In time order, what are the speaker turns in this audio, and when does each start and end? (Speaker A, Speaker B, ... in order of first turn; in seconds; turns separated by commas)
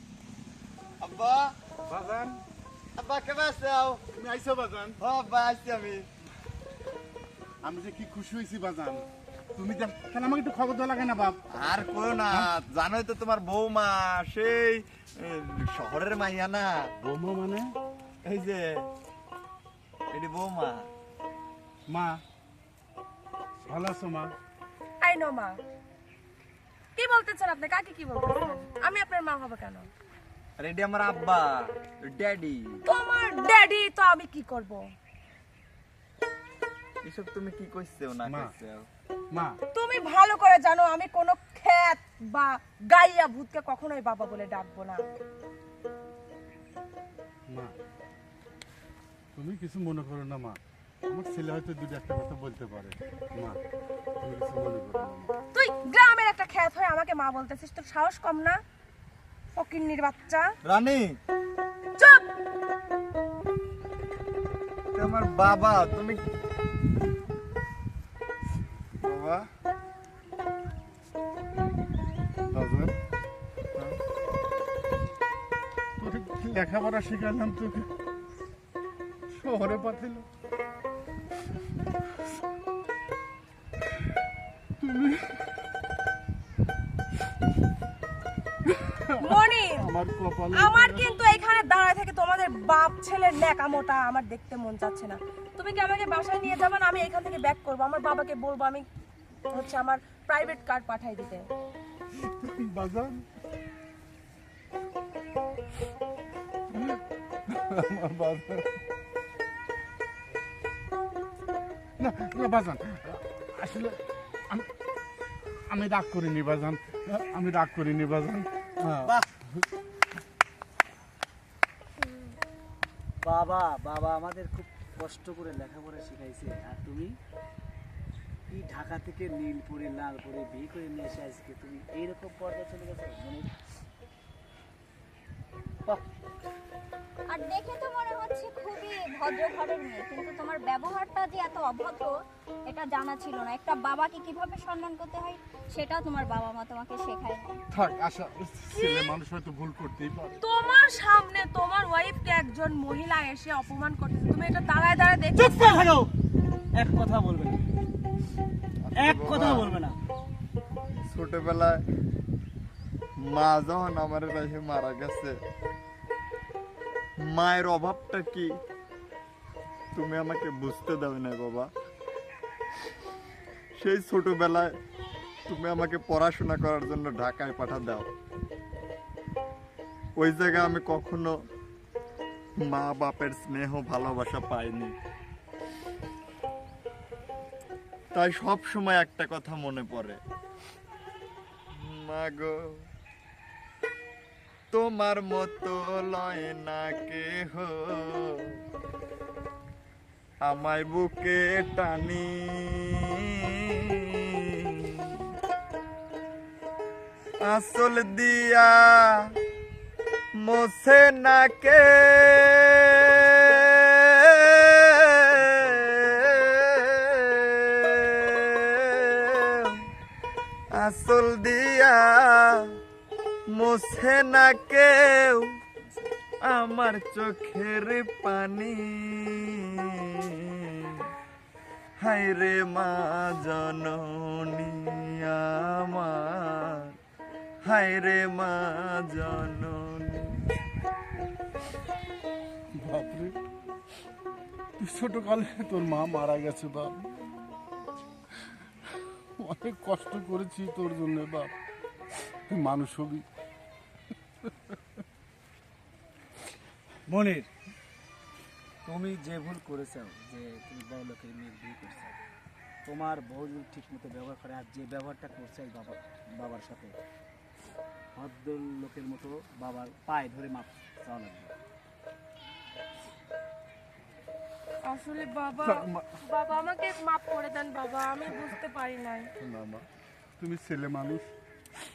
Speaker A: 1.0-1.5, Speaker B: 1.9-2.4, Speaker A: 3.0-4.0, Speaker B: 4.1-5.0, Speaker A: 5.0-6.0, Speaker B: 7.6-11.4, Speaker A: 11.5-16.8, Speaker B: 17.0-17.7, Speaker A: 18.2-18.9, Speaker A: 20.1-20.9, Speaker B: 21.9-22.2, Speaker B: 23.7-24.3, Speaker C: 25.0-25.6, Speaker C: 26.9-29.9, Speaker A: 30.6-32.8, Speaker C: 32.9-34.8, Speaker A: 37.0-38.9, Speaker B: 38.2-38.5, Speaker B: 39.3-39.6, Speaker C: 39.7-45.0, Speaker B: 47.5-47.8, Speaker B: 49.3-53.6, Speaker B: 54.2-55.3, Speaker C: 55.5-58.6, Speaker C: 59.5-60.5, Speaker A: 60.6-61.2, Speaker C: 62.0-62.3, Speaker A: 64.9-66.2, Speaker A: 69.0-69.5, Speaker B: 72.5-72.9, Speaker B: 76.0-77.9, Speaker B: 79.3-80.2, Speaker B: 84.8-85.5, Speaker B: 88.7-91.1, Speaker C: 89.2-89.9, Speaker C: 90.5-98.8, Speaker C: 99.5-101.5, Speaker B: 102.2-103.2, Speaker B: 106.7-108.7, Speaker B: 112.0-114.7, Speaker B: 115.6-119.6, Speaker D: 123.2-127.1, Speaker D: 128.5-133.5, Speaker E: 137.3-147.6, Speaker B: 147.7-150.4, Speaker C: 148.7-149.1, Speaker C: 150.4-155.8, Speaker D: 155.3-156.1, Speaker D: 156.7-157.6, Speaker A: 158.8-159.7, Speaker D: 158.9-160.0, Speaker A: 161.1-161.8, Speaker A: 163.2-165.4, Speaker A: 167.2-168.6, Speaker A: 169.9-171.7, Speaker A: 173.8-174.8, Speaker A: 175.5-178.1, Speaker A: 180.2-181.3, Speaker A: 182.6-184.9, Speaker A: 188.1-190.2, Speaker A: 191.7-192.6, Speaker A: 194.7-198.4, Speaker A: 200.4-203.1, Speaker A: 207.4-209.1, Speaker A: 210.4-219.8, Speaker A: 220.7-222.7, Speaker A: 223.5-225.5, Speaker A: 226.4-231.0, Speaker A: 232.0-236.9, Speaker A: 237.6-240.4, Speaker B: 242.7-243.3, Speaker B: 244.8-247.1, Speaker B: 249.4-251.5, Speaker B: 252.5-253.2, Speaker D: 257.1-257.5, Speaker D: 258.9-262.2, Speaker D: 262.9-267.0, Speaker D: 268.1-271.5, Speaker C: 274.9-279.3, Speaker B: 275.6-276.1, Speaker B: 279.4-279.8, Speaker B: 280.4-281.3